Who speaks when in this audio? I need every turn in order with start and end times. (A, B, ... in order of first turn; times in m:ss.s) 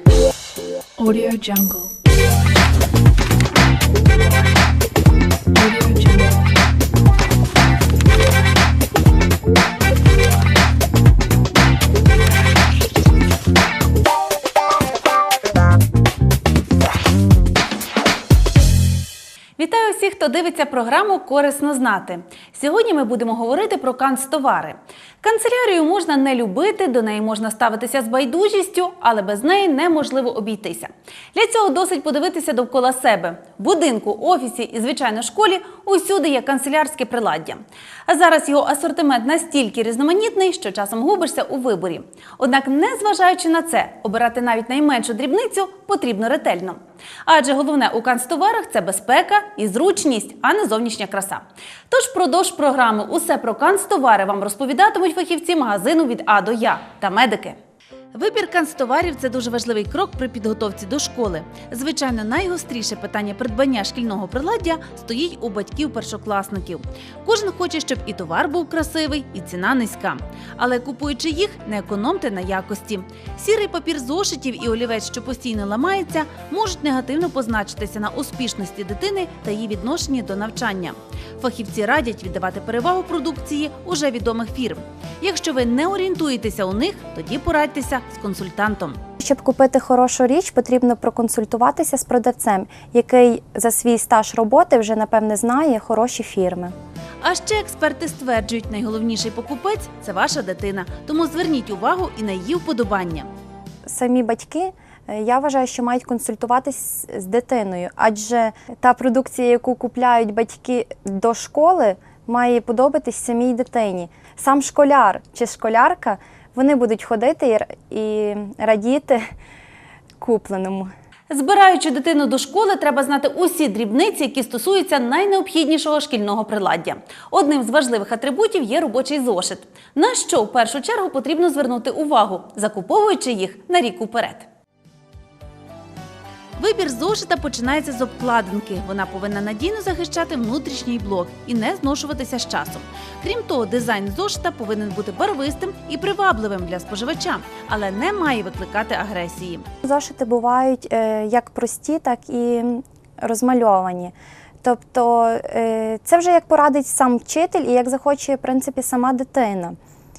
0:01.0-0:01.9 A
0:05.5-0:06.5 A
0:19.6-0:57.6 B
0:58.1-1:29.0 B
1:29.2-1:36.7 C
1:37.2-1:43.3 B
1:43.9-1:59.2 C
2:00.2-2:00.9 C
2:01.3-2:14.5 B
2:16.6-2:29.6 B
2:29.8-2:39.8 C